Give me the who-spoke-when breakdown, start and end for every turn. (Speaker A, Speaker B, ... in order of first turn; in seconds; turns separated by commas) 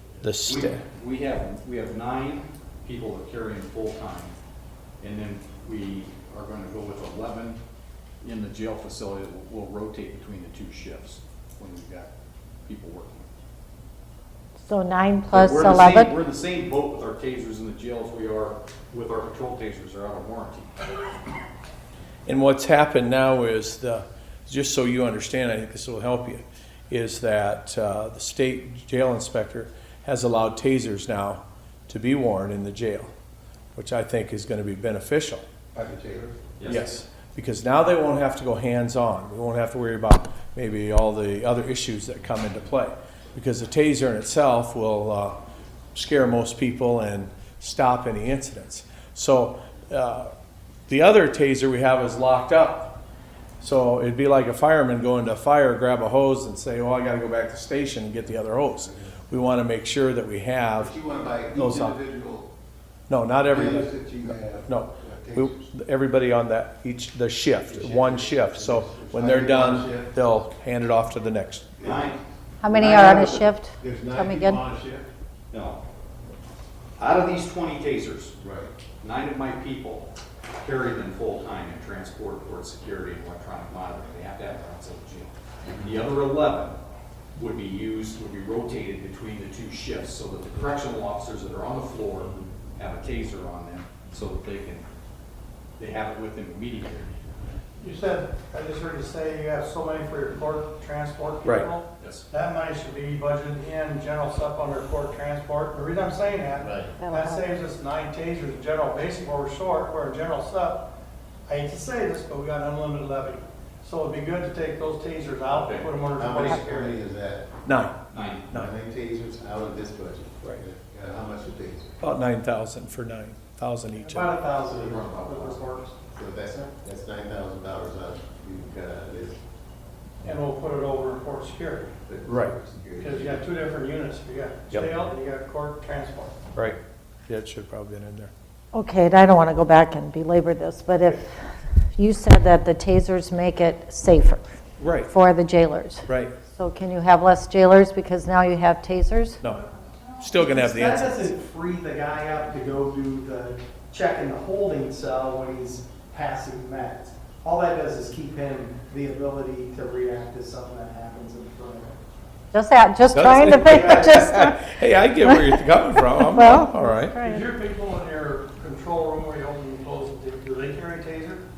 Speaker A: 0.2-0.8, Speaker B: 0.5-4.3, Speaker B: 5.0-7.6, Speaker B: 8.2-12.1, Speaker B: 12.7-13.3, Speaker C: 14.6-16.2, Speaker B: 15.3-20.8, Speaker A: 22.2-33.1, Speaker A: 33.8-35.4, Speaker D: 35.7-36.4, Speaker B: 36.6-36.9, Speaker A: 36.7-45.4, Speaker A: 45.9-50.3, Speaker A: 50.9-53.0, Speaker A: 53.6-60.9, Speaker D: 60.8-62.5, Speaker A: 61.5-61.9, Speaker A: 63.1-71.8, Speaker D: 63.5-65.6, Speaker D: 67.7-70.1, Speaker D: 71.8-75.1, Speaker B: 71.8-72.2, Speaker C: 72.6-74.6, Speaker B: 75.5-75.8, Speaker B: 77.0-78.3, Speaker D: 78.4-78.7, Speaker B: 79.0-80.1, Speaker B: 80.6-86.8, Speaker B: 87.3-94.8, Speaker B: 95.8-97.2, Speaker E: 97.8-110.9, Speaker D: 106.6-106.9, Speaker C: 107.0-107.6, Speaker E: 111.5-117.0, Speaker B: 115.5-116.0, Speaker D: 116.1-117.5, Speaker A: 117.7-117.9, Speaker B: 118.1-118.5, Speaker D: 118.5-122.0, Speaker A: 122.0-124.3, Speaker F: 124.0-125.9, Speaker B: 124.7-125.6, Speaker D: 126.1-129.4, Speaker E: 130.2-131.9, Speaker D: 132.1-133.4, Speaker A: 132.2-132.5, Speaker E: 133.0-136.4, Speaker A: 136.6-138.3, Speaker C: 138.7-141.3, Speaker C: 141.9-144.4, Speaker A: 144.8-145.1, Speaker C: 144.9-149.4, Speaker A: 146.1-146.4, Speaker A: 150.2-151.2, Speaker F: 150.3-162.0, Speaker C: 162.5-167.5, Speaker A: 163.1-167.1, Speaker F: 163.3-164.3, Speaker E: 167.2-171.4